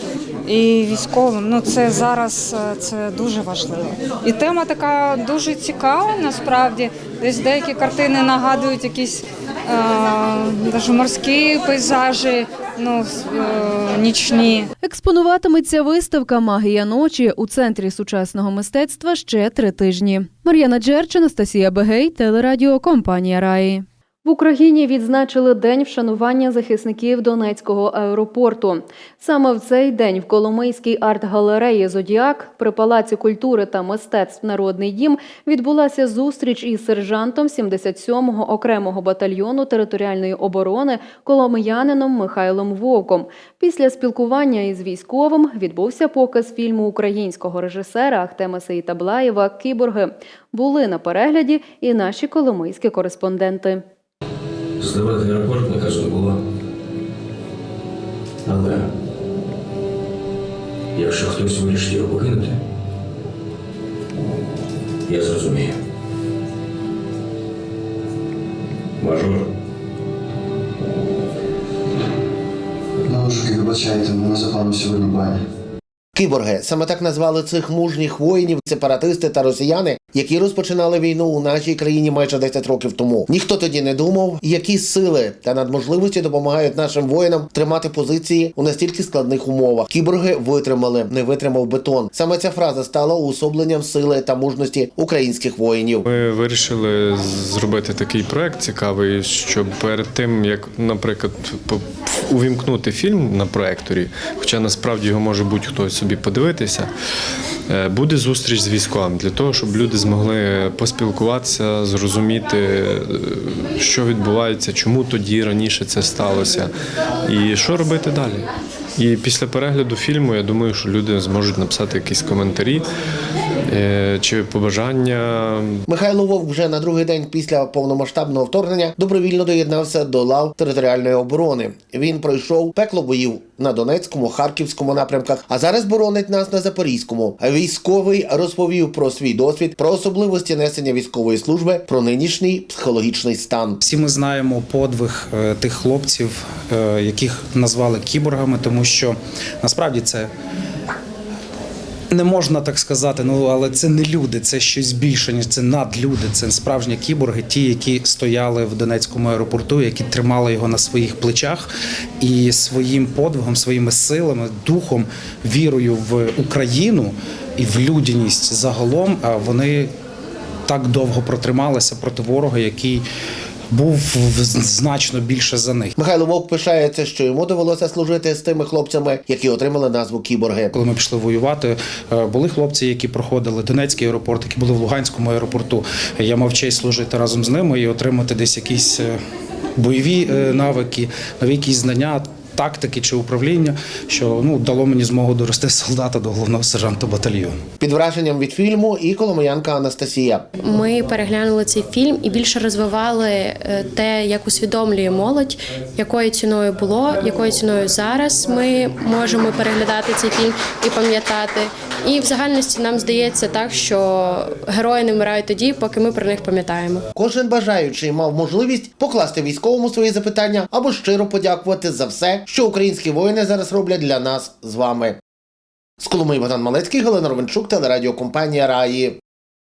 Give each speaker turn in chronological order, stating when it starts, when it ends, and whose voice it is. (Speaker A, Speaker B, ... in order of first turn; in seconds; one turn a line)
Speaker A: 0.5-14.6
Speaker B: 14.8-53.8
Speaker C: 54.8-56.3
Speaker D: 55.0-56.2
Speaker C: 61.0-62.4
Speaker D: 61.2-62.3
Speaker C: 65.1-65.5
Speaker D: 73.1-75.3
Speaker E: 76.1-96.1
Speaker F: 96.1-106.9
Speaker F: 107.7-116.7
Speaker F: 117.2-118.4
Speaker F: 119.0-122.8
Speaker F: 123.7-125.8
Speaker E: 125.9-143.8
Speaker G: 143.8-150.3
Speaker G: 152.1-161.7
Speaker G: 162.2-169.9
Speaker G: 170.7-173.0
Speaker G: 173.7-175.9
Speaker E: 176.0-180.7
Speaker G: 180.7-189.2
Speaker G: 189.8-197.5
Speaker E: 197.8-200.4
Speaker H: 200.6-217.0
Speaker E: 217.1-225.2
Speaker E: 226.0-229.2